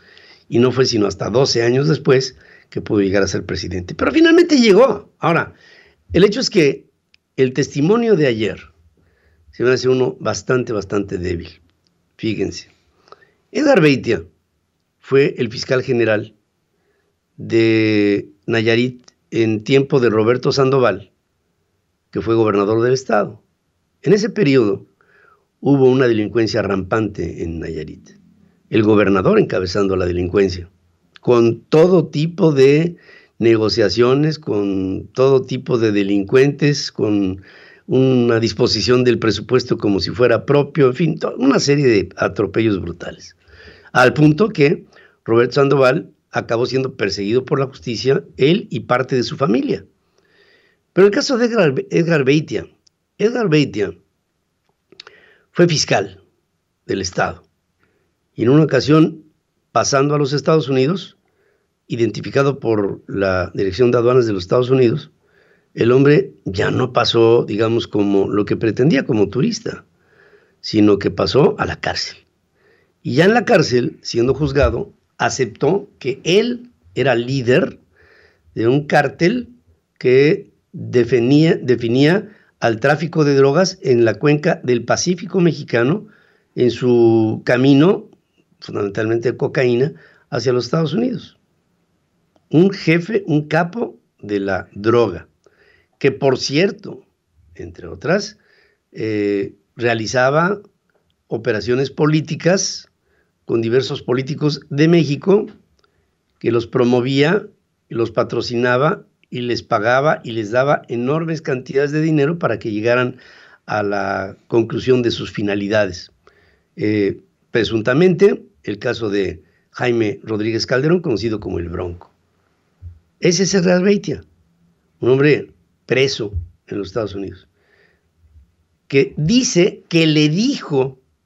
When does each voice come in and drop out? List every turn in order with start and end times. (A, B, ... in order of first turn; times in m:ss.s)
0:00.5-0:05.6 A
0:06.1-0:08.7 A
0:09.5-0:11.6 A
0:12.2-0:12.7 A
0:13.5-0:14.3 A
0:15.0-0:16.4 A
0:17.4-0:21.1 A
0:22.1-0:23.4 A
0:24.0-0:24.9 A
0:25.6-0:28.2 A
0:28.7-0:30.7 A
0:31.2-0:43.4 A
0:43.9-0:49.9 A
0:51.0-0:54.0 A
0:55.5-0:56.2 A
0:56.9-0:57.5 A
0:58.4-1:01.2 A
1:01.9-1:05.1 A
1:05.8-1:09.8 A
1:10.6-1:12.2 A
1:13.0-1:17.8 A
1:18.5-1:31.4 A
1:32.5-1:35.3 A
1:36.0-1:37.0 A
1:37.6-1:38.4 A
1:38.9-1:40.6 A
1:41.3-1:42.9 A
1:43.5-1:45.5 A
1:46.4-1:56.1 A
1:56.8-2:02.1 A
2:03.2-2:04.2 A
2:05.0-2:07.5 A
2:08.9-2:11.0 A